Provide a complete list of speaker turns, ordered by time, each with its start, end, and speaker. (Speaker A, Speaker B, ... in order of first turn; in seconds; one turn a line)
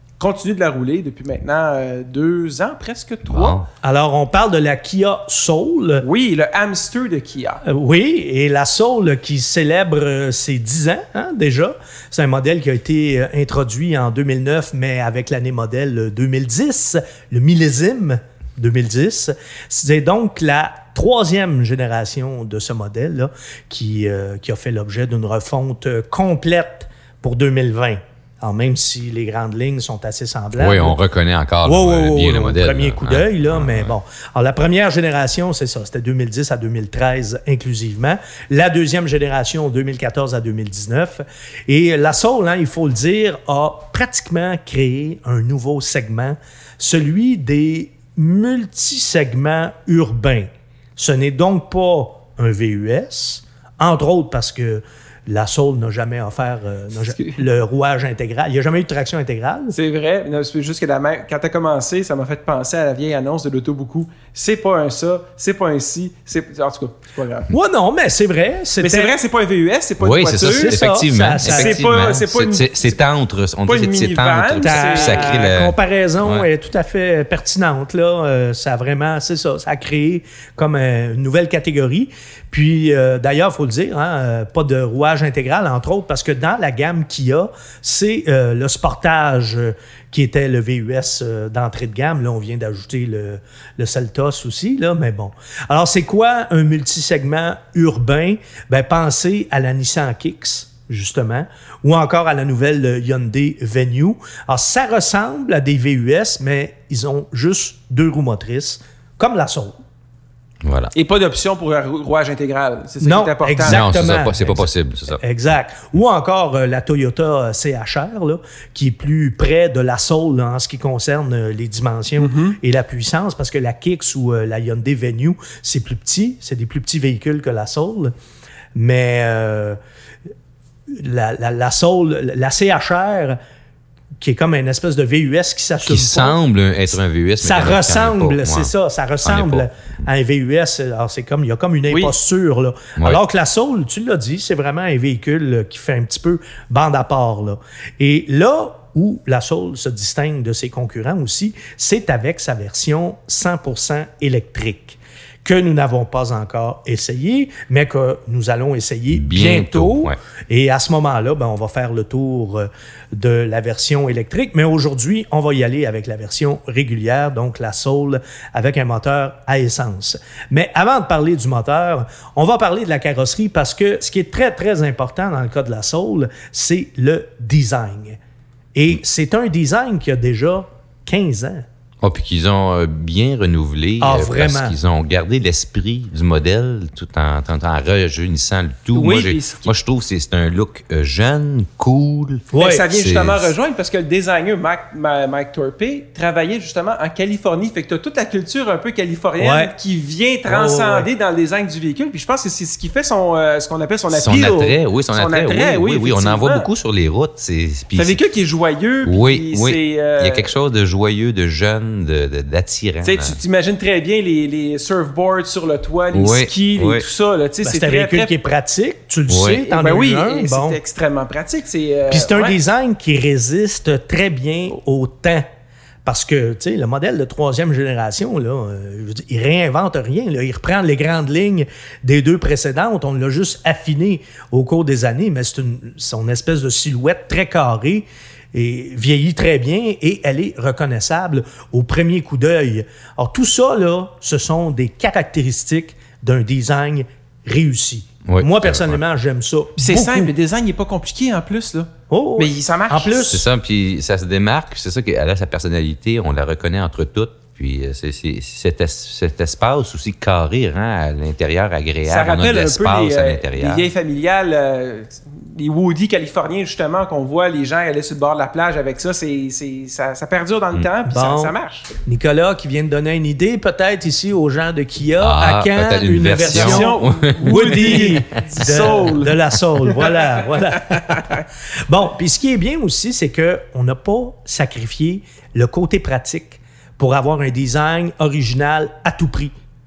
Speaker A: 0.2-3.6
Speaker B: 3.2-3.7
Speaker C: 3.8-6.0
Speaker A: 6.0-7.6
Speaker C: 7.6-31.0
Speaker B: 30.6-33.9
Speaker C: 31.6-59.8
Speaker A: 59.7-67.5
Speaker C: 67.5-69.1
Speaker A: 68.8-70.9
Speaker B: 70.0-76.5
Speaker C: 70.4-71.8
Speaker A: 71.4-73.0
Speaker A: 73.6-75.5
Speaker C: 74.6-109.8
Speaker B: 110.6-110.9
Speaker A: 110.9-113.8
Speaker C: 113.0-128.1
Speaker B: 113.6-115.2
Speaker A: 122.2-122.6
Speaker C: 128.7-129.8
Speaker C: 130.9-133.4
Speaker C: 134.2-136.4
Speaker B: 135.8-138.7
Speaker C: 137.4-178.2
Speaker B: 139.2-139.6
Speaker B: 159.1-160.2
Speaker C: 178.7-181.6
Speaker B: 182.0-193.5
Speaker C: 184.0-184.8
Speaker A: 188.9-189.7
Speaker C: 192.5-192.8
Speaker A: 192.5-206.7
Speaker C: 199.4-199.7
Speaker C: 200.5-201.1
Speaker B: 204.1-208.2
Speaker A: 207.9-210.5
Speaker B: 209.0-213.4
Speaker A: 213.0-218.3
Speaker B: 216.1-217.1
Speaker C: 217.6-220.8
Speaker B: 219.3-219.7
Speaker A: 219.7-222.6
Speaker C: 222.1-225.4
Speaker C: 226.0-250.3
Speaker B: 248.2-249.0
Speaker A: 249.8-253.3
Speaker C: 252.1-253.4
Speaker B: 253.3-263.9
Speaker A: 262.1-271.9
Speaker C: 271.1-271.5
Speaker C: 272.0-289.5
Speaker B: 275.2-278.1
Speaker A: 276.4-281.4